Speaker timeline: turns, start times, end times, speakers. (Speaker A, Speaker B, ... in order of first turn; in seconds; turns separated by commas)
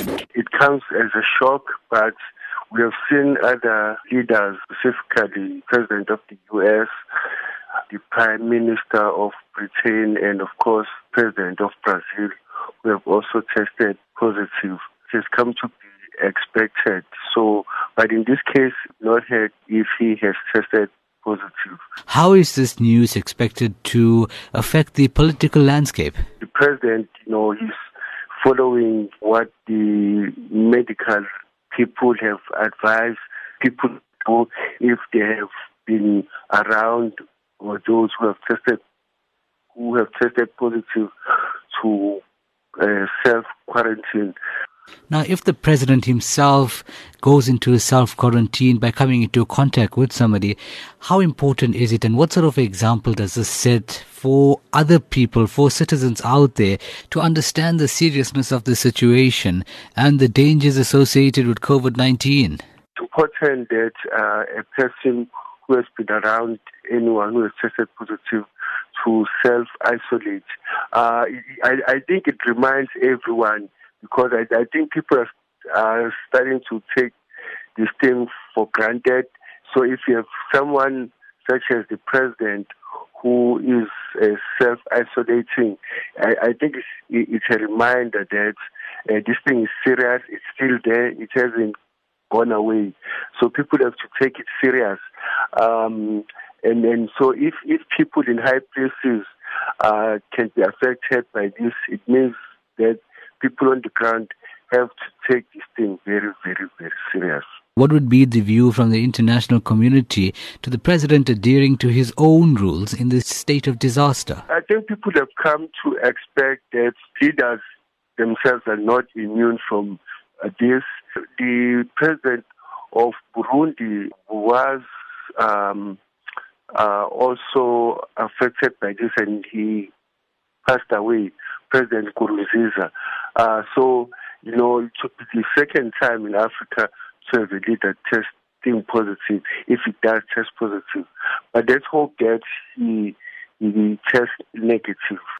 Speaker A: 0.3-2.1, Speaker A: 2.7-6.9, Speaker A: 7.9-21.8, Speaker B: 22.1-26.2, Speaker A: 26.4-27.8, Speaker A: 28.4-38.8, Speaker A: 39.7-41.1, Speaker A: 41.7-42.2, Speaker A: 42.8-44.4, Speaker B: 45.1-62.6, Speaker A: 63.0-77.1, Speaker A: 77.8-91.7, Speaker A: 92.3-95.0, Speaker A: 95.5-107.5, Speaker B: 107.8-114.4, Speaker A: 114.5-117.6, Speaker A: 118.2-120.8, Speaker A: 121.4-124.8, Speaker A: 125.3-126.0, Speaker A: 126.7-129.9, Speaker A: 130.6-145.2